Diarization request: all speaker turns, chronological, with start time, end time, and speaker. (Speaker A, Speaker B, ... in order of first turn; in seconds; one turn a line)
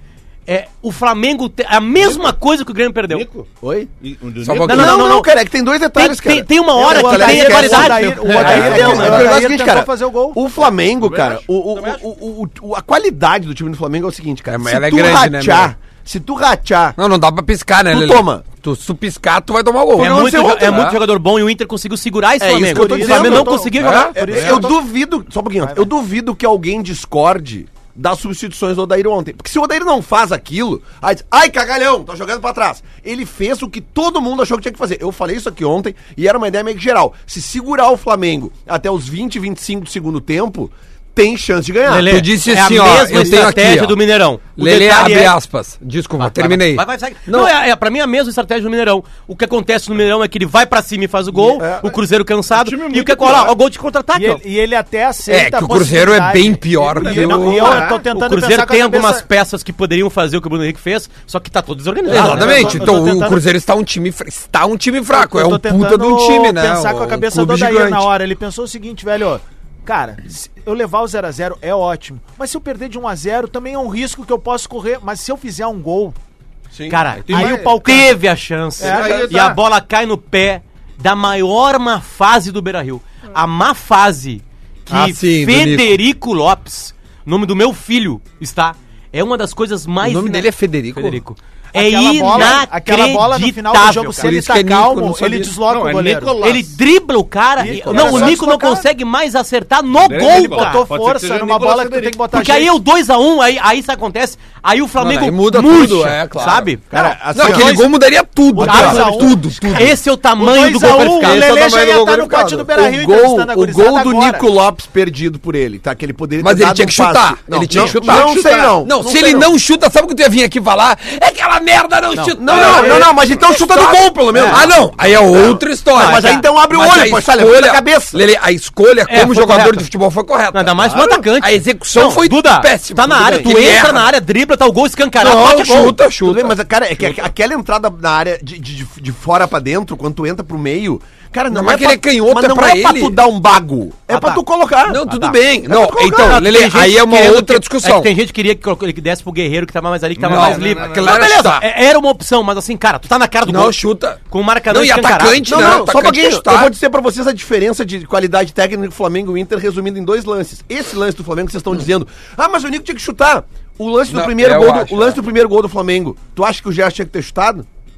Speaker A: 0.5-3.3
Speaker B: 3.1-4.7
Speaker C: 3.6-3.9
Speaker D: 4.4-5.1
Speaker C: 4.5-17.0
Speaker A: 4.6-5.3
Speaker A: 5.9-9.3
Speaker E: 6.8-10.4
Speaker B: 8.2-9.2
Speaker D: 8.4-9.1
Speaker B: 10.9-12.0
Speaker D: 14.5-15.7
Speaker D: 17.0-21.0
Speaker C: 17.9-18.4
Speaker C: 19.9-20.9
Speaker A: 20.0-24.2
Speaker C: 22.4-42.2
Speaker E: 22.6-24.8
Speaker D: 23.8-24.6
Speaker E: 25.6-25.9
Speaker A: 41.8-45.4
Speaker D: 42.0-47.5
Speaker C: 43.2-43.5
Speaker A: 46.2-54.4
Speaker C: 51.5-51.9
Speaker B: 52.5-53.6
Speaker E: 54.1-59.2
Speaker D: 55.3-57.9
Speaker B: 56.9-58.0
Speaker A: 57.5-62.9
Speaker D: 62.0-68.1
Speaker E: 62.1-63.4
Speaker E: 65.1-76.2
Speaker A: 76.9-94.3
Speaker B: 77.2-77.8
Speaker E: 77.3-78.2
Speaker B: 78.8-79.6
Speaker E: 78.8-79.6
Speaker D: 84.9-86.0
Speaker D: 90.0-91.2
Speaker E: 91.7-96.6
Speaker D: 94.2-95.5
Speaker B: 95.7-96.7
Speaker A: 96.4-100.9
Speaker E: 97.6-98.9
Speaker B: 97.7-98.3
Speaker D: 97.9-98.3
Speaker B: 99.9-102.2
Speaker E: 100.3-102.7
Speaker A: 102.3-106.8
Speaker D: 105.0-106.7
Speaker C: 106.9-107.8
Speaker E: 106.9-107.9
Speaker D: 107.3-110.0
Speaker E: 108.5-114.5
Speaker A: 108.6-111.5
Speaker C: 108.6-109.0
Speaker D: 111.2-112.7
Speaker C: 112.7-119.5
Speaker D: 116.4-134.1
Speaker B: 117.7-118.8
Speaker A: 122.1-123.1
Speaker C: 122.4-128.2
Speaker A: 124.3-124.6
Speaker A: 125.9-126.5
Speaker A: 129.1-129.8
Speaker A: 130.5-136.0
Speaker B: 130.8-131.2
Speaker C: 133.1-133.8
Speaker D: 135.2-136.6
Speaker C: 135.4-145.0
Speaker D: 141.5-143.2
Speaker A: 144.1-144.4
Speaker D: 144.8-148.1
Speaker A: 145.1-145.4
Speaker C: 145.7-146.4
Speaker A: 146.1-155.8
Speaker B: 150.2-151.3
Speaker D: 150.2-151.7
Speaker D: 153.4-156.7
Speaker C: 155.4-167.7
Speaker D: 164.1-165.2